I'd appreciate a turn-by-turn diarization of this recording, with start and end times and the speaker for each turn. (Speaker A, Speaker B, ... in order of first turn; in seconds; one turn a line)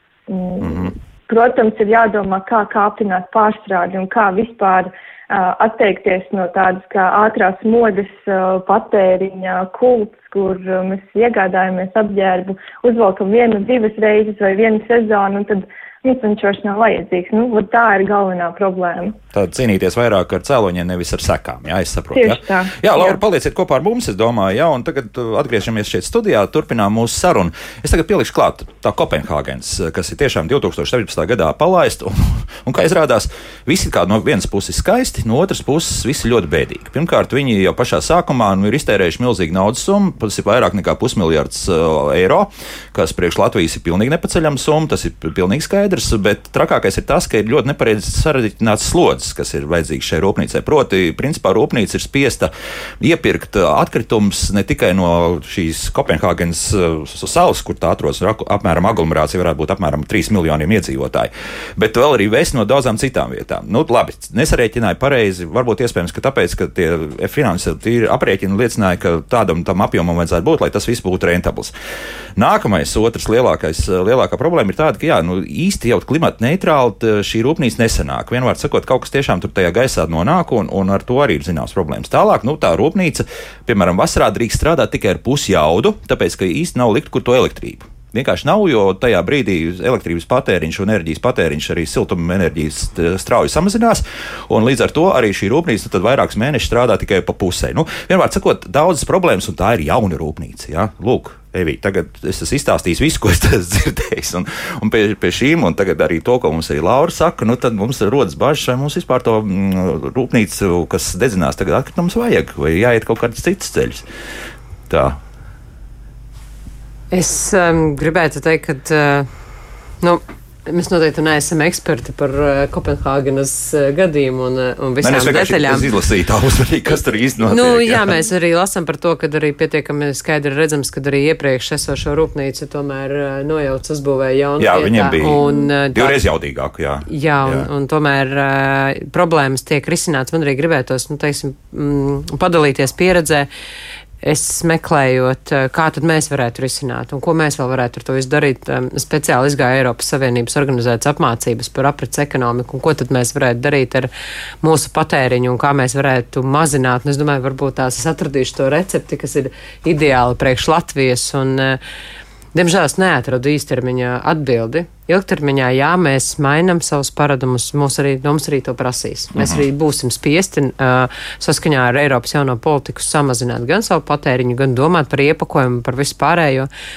Speaker A: 0.3-19.2
Speaker B: 0.6-0.9
Speaker B: 19.3-71.7
Speaker A: 22.1-23.2
Speaker B: 72.3-114.0
Speaker B: 114.9-115.2
Speaker C: 117.1-119.3
Speaker C: 120.0-125.9
Speaker B: 125.0-128.1
Speaker C: 127.4-136.2
Speaker B: 134.6-137.7
Speaker C: 137.1-143.5
Speaker C: 144.2-154.1
Speaker C: 154.6-161.8
Speaker C: 162.5-176.7
Speaker B: 169.3-169.6